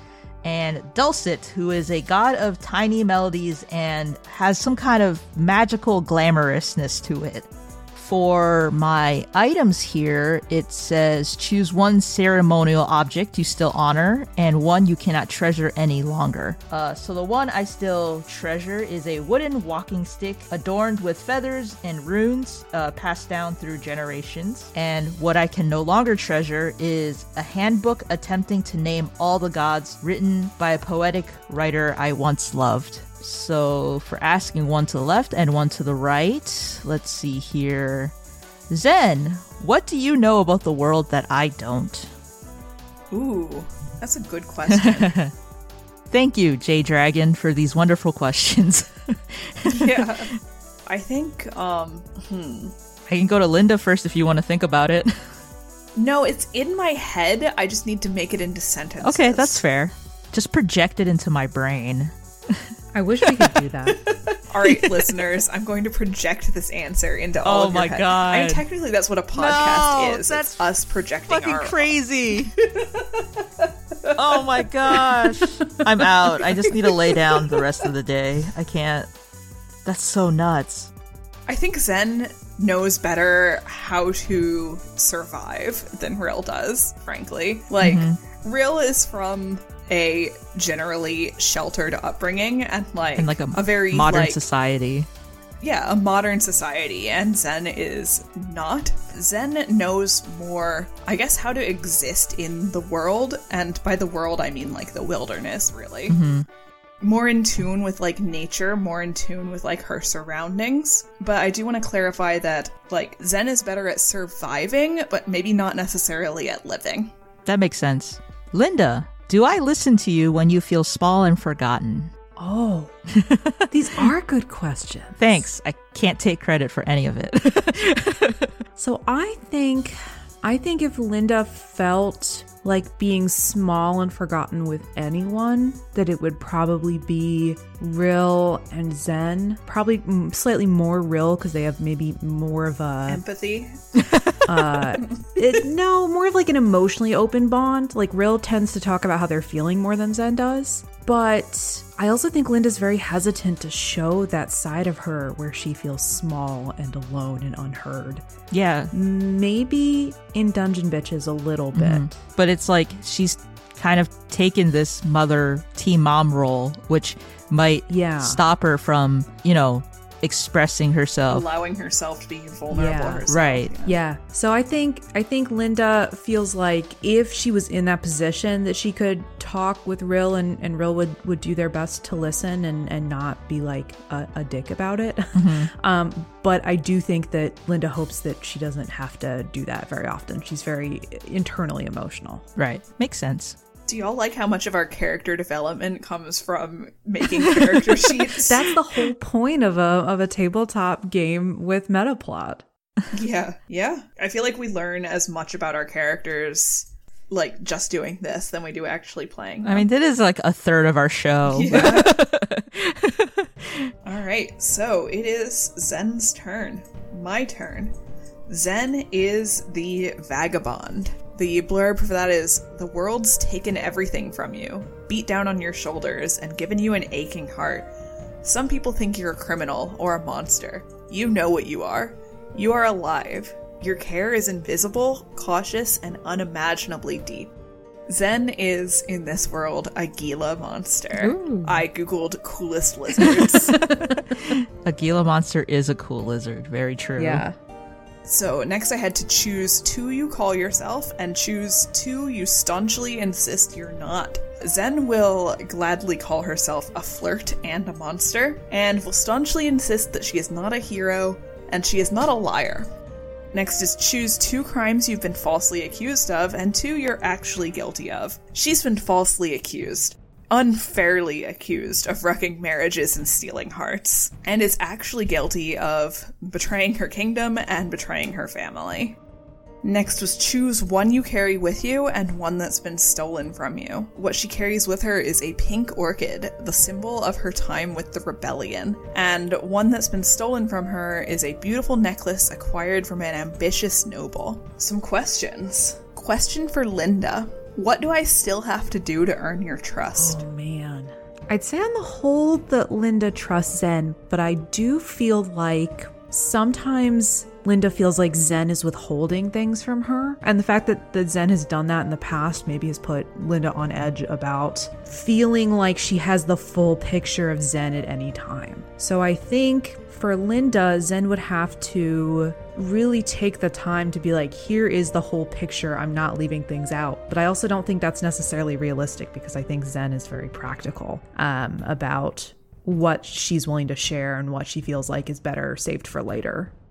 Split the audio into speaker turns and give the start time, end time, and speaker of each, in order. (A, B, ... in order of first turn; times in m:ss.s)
0:00.4-0:38.1 A
0:38.7-0:42.1 A
0:43.1-0:45.2 B
0:44.7-0:45.3 A
0:46.1-0:50.3 A
0:49.7-0:50.3 B
0:50.9-0:52.7 B
0:53.1-0:55.3 A
0:56.0-0:59.6 B
0:59.0-1:03.6 A
1:02.9-1:04.0 C
1:04.5-1:12.0 B
1:07.4-1:08.6 A
1:09.4-1:10.6 A
1:11.3-1:12.6 A
1:12.6-1:14.7 B
1:14.2-1:19.1 A
1:16.6-1:17.6 B
1:19.8-1:20.9 A
1:21.5-1:34.4 B
1:27.8-1:28.2 A
1:33.2-1:35.1 A
1:35.6-1:46.2 B
1:46.1-1:46.4 A
1:47.0-1:57.1 B
1:57.5-2:02.1 A
2:02.4-2:03.0 C
2:03.1-2:04.1 A
2:03.7-2:05.4 C
2:05.2-2:08.5 A
2:08.8-2:23.2 C
2:23.1-2:24.0 B
2:24.0-2:24.7 A
2:24.4-2:38.2 C
2:38.5-2:38.9 A
2:38.9-2:42.1 C
2:41.7-2:51.5 A
2:47.9-2:48.4 C
2:51.3-2:54.0 B
2:52.7-2:53.3 C
2:53.3-2:53.7 A
2:53.8-3:12.5 C
3:05.4-3:05.7 A
3:12.6-3:13.6 A
3:13.9-3:18.7 B
3:18.4-3:22.6 C
3:23.1-3:29.9 B
3:29.6-3:33.9 A
3:31.5-3:32.3 B
3:34.0-3:38.0 B
3:38.5-3:47.9 B
3:48.4-3:57.5 B
3:58.1-4:03.8 B
4:01.2-4:01.6 C
4:03.2-4:07.5 A
4:03.8-4:04.1 C
4:07.2-4:07.6 C
4:08.3-4:22.9 B
4:23.5-4:39.2 B
4:39.8-5:00.4 B
5:00.2-5:36.7 C